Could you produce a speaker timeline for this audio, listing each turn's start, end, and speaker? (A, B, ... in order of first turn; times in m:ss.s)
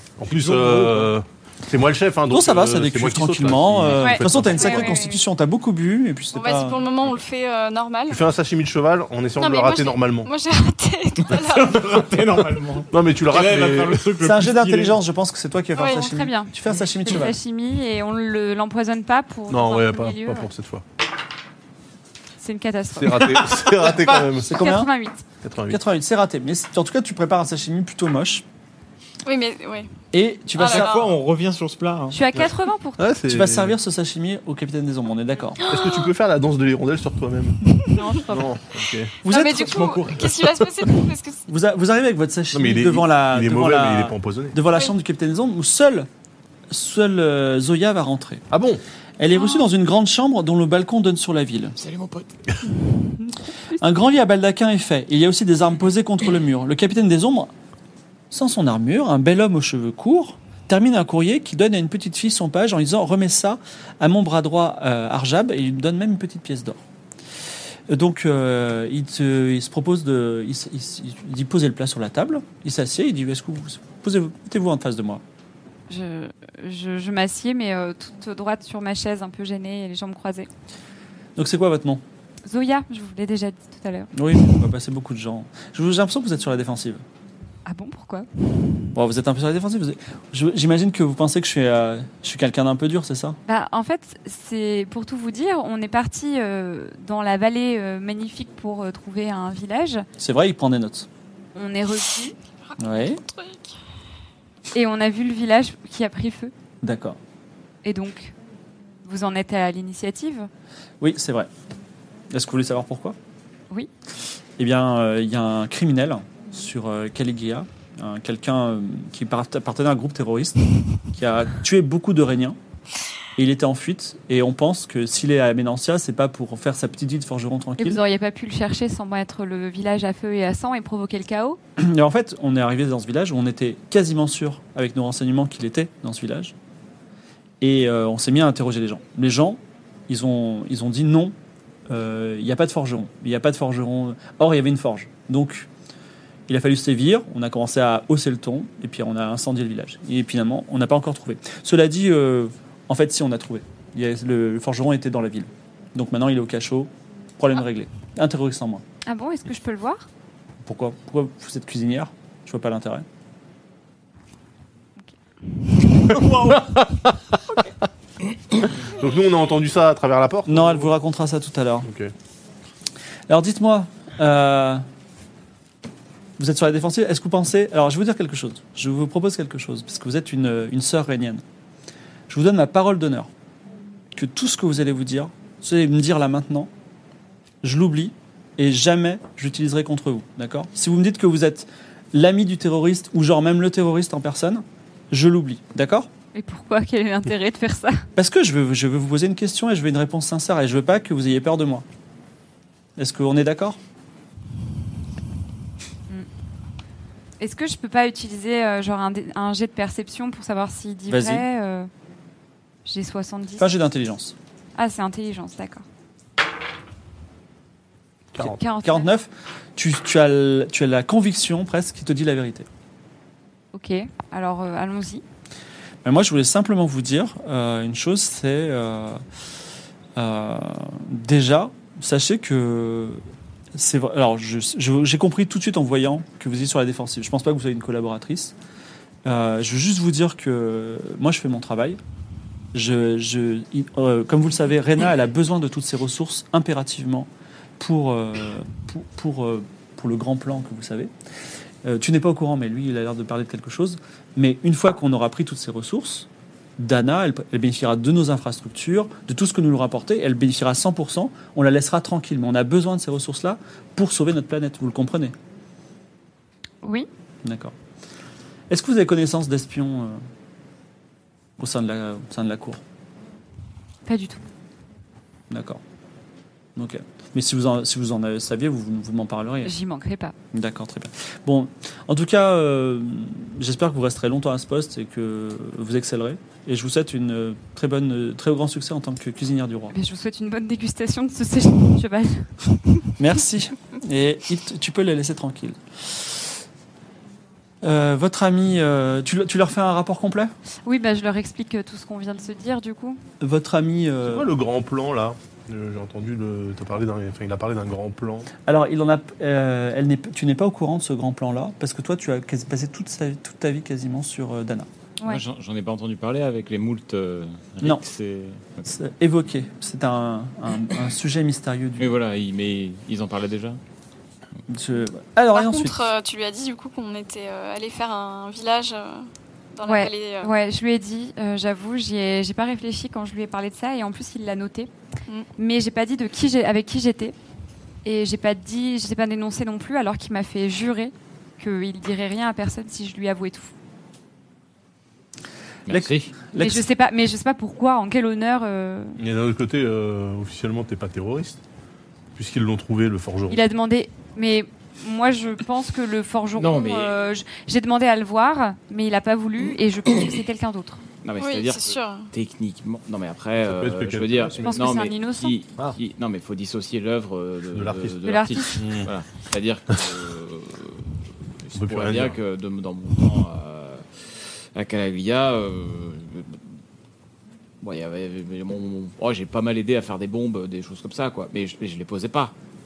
0:00.2-0:05.0 A
0:00.3-0:01.1 B
0:02.3-0:06.8 B
0:03.9-0:05.2 C
0:06.3-0:08.2 D
0:08.1-0:10.3 A
0:09.4-0:11.8 D
0:11.2-0:15.0 E
0:12.9-0:14.1 A
0:14.2-0:17.4 B
0:15.8-0:16.0 D
0:15.8-0:20.5 C
0:19.5-0:20.8 A
0:22.4-0:25.2 C
0:23.0-0:24.6 A
0:24.4-0:24.9 B
0:25.4-0:25.8 A
0:25.7-0:28.4 B
0:29.2-0:29.9 D
0:30.1-0:31.1 B
0:30.6-0:32.2 E
0:30.6-0:31.0 D
0:32.1-0:33.1 C
0:32.3-0:33.8 A
0:33.3-0:35.6 B
0:35.6-0:36.1 D
0:35.7-0:39.2 A
0:37.9-0:38.5 C
0:39.2-0:41.5 D
0:39.2-0:40.2 B
0:41.5-0:46.1 B
0:42.5-0:44.6 A
0:46.7-0:48.4 B
0:48.5-0:48.8 A
0:49.2-0:51.8 B
0:51.8-0:52.3 E
0:53.8-0:57.5 B
0:58.3-1:06.8 B
1:07.9-1:15.2 B
1:15.9-1:20.5 C
1:21.4-1:22.0 B
1:22.4-1:24.1 C
1:24.1-1:27.0 B
1:27.7-1:28.3 C
1:28.9-1:33.4 B
1:33.5-1:40.1 C
1:40.2-1:41.1 B
1:41.6-1:42.4 C
1:42.6-1:43.7 D
1:42.8-1:43.2 B
1:44.7-1:46.5 C
1:46.8-1:47.2 B
1:47.8-1:48.4 C
1:49.0-1:50.5 C
1:51.0-1:51.5 B
1:52.3-1:53.2 B
1:54.6-2:02.6 B
2:03.4-2:08.0 B
2:07.8-2:11.6 C
2:11.8-2:16.5 B
2:17.6-2:21.4 B
2:21.9-2:25.7 B
2:26.5-2:38.8 B
2:39.1-2:40.1 C
2:40.6-2:43.1 B
2:46.1-2:46.6 E
2:46.3-2:47.4 A
2:48.9-2:50.9 A
2:50.5-2:51.9 B
2:51.9-2:52.1 A
2:53.3-2:54.8 B
2:56.4-3:01.4 B
3:02.3-3:03.3 B
3:04.1-3:06.7 B
3:07.6-3:16.1 B
3:16.3-3:18.1 C
3:18.2-3:21.8 B
3:23.0-3:23.8 B
3:27.4-3:31.9 C
3:31.1-3:31.4 B
3:32.8-3:33.7 C
3:33.6-3:34.4 B
3:34.8-3:35.8 C
3:38.4-3:39.1 C
3:38.4-3:42.7 B
3:43.7-3:45.2 C
3:46.0-3:49.2 B
3:50.2-3:53.2 B
3:53.7-3:58.6 B
3:59.2-4:02.0 B
4:02.7-4:11.1 B
4:11.8-4:25.3 B
4:26.8-4:27.1 C
4:27.4-4:27.7 B
4:28.7-4:30.2 B
4:31.6-4:32.8 B
4:34.1-4:34.4 C
4:35.5-4:35.8 B
4:36.8-4:39.7 B
4:39.6-4:40.4 C
4:40.5-4:50.0 B
4:49.9-4:52.8 C
4:53.2-4:56.5 B
4:57.8-5:00.5 B
5:00.8-5:03.2 C
5:03.4-5:04.5 B
5:04.2-5:08.5 A
5:08.7-5:14.9 B
5:15.3-5:18.9 E
5:18.8-5:22.2 B
5:22.0-5:23.8 E
5:24.7-5:26.1 B
5:25.5-5:30.5 D
5:29.8-5:34.9 C
5:35.6-5:37.4 C
5:38.0-5:43.7 C
5:45.9-5:46.3 E
5:45.9-5:46.9 B
5:46.6-5:49.2 C
5:49.2-5:51.6 A
5:52.4-5:53.6 A
5:53.5-6:01.0 C
5:56.6-5:57.2 E
6:01.2-6:11.1 E
6:01.4-6:02.3 D
6:03.6-6:04.9 A
6:04.6-6:05.6 C
6:07.7-6:08.2 A
6:08.2-6:08.8 C
6:08.8-6:09.1 A
6:11.6-6:14.0 E
6:11.8-6:12.4 A
6:14.8-6:16.6 E
6:17.8-6:22.5 E